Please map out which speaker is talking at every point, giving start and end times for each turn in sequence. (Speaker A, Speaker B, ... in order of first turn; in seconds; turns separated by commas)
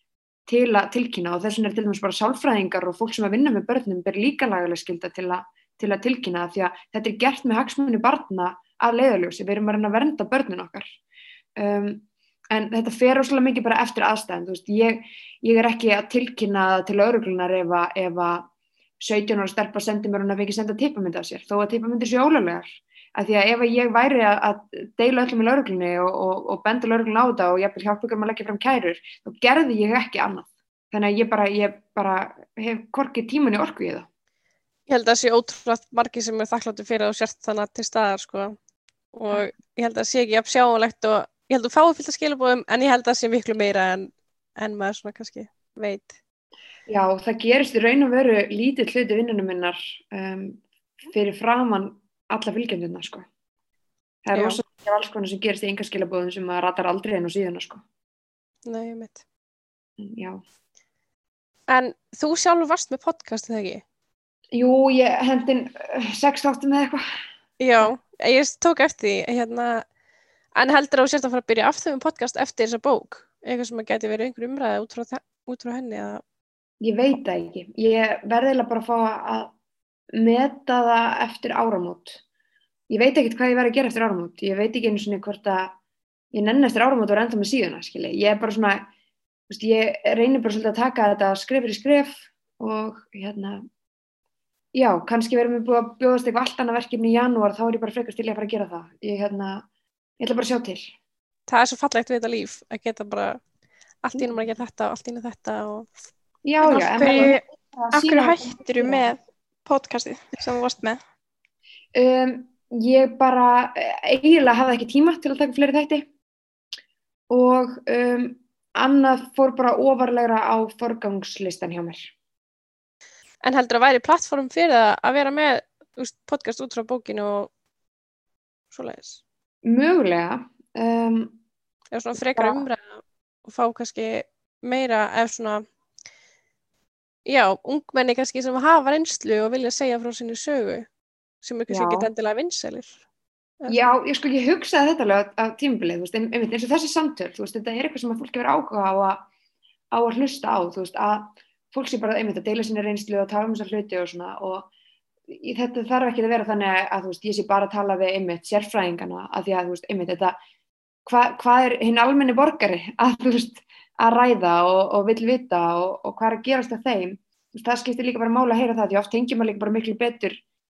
Speaker A: 0.5-10.9, Speaker A: 11.6-18.5, Speaker A: 19.0-34.1, Speaker B: 34.9-38.5, Speaker B: 39.1-46.1, Speaker A: 46.9-53.3, Speaker A: 54.2-57.8, Speaker B: 54.3-54.6, Speaker B: 58.6-59.2, Speaker A: 60.0-60.4, Speaker B: 61.7-63.8, Speaker A: 64.5-67.0, Speaker B: 67.6-69.8, Speaker B: 70.5-76.2, Speaker A: 76.8-79.5, Speaker A: 80.1-82.2, Speaker A: 82.9-85.7, Speaker A: 86.3-88.9, Speaker A: 89.5-93.6, Speaker A: 94.7-99.6, Speaker A: 100.2-100.9, Speaker B: 101.5-103.4, Speaker B: 104.0-105.9, Speaker A: 106.4-109.0, Speaker C: 106.6-111.0, Speaker A: 111.9-116.1, Speaker A: 117.3-122.1, Speaker B: 123.4-127.5, Speaker B: 128.7-129.2, Speaker A: 129.6-131.4, Speaker B: 131.9-135.6, Speaker A: 132.3-132.6, Speaker B: 137.2-140.9, Speaker B: 141.4-143.0, Speaker A: 141.7-142.1, Speaker A: 143.7-149.2, Speaker A: 149.9-154.7, Speaker A: 155.3-160.4, Speaker A: 161.1-170.4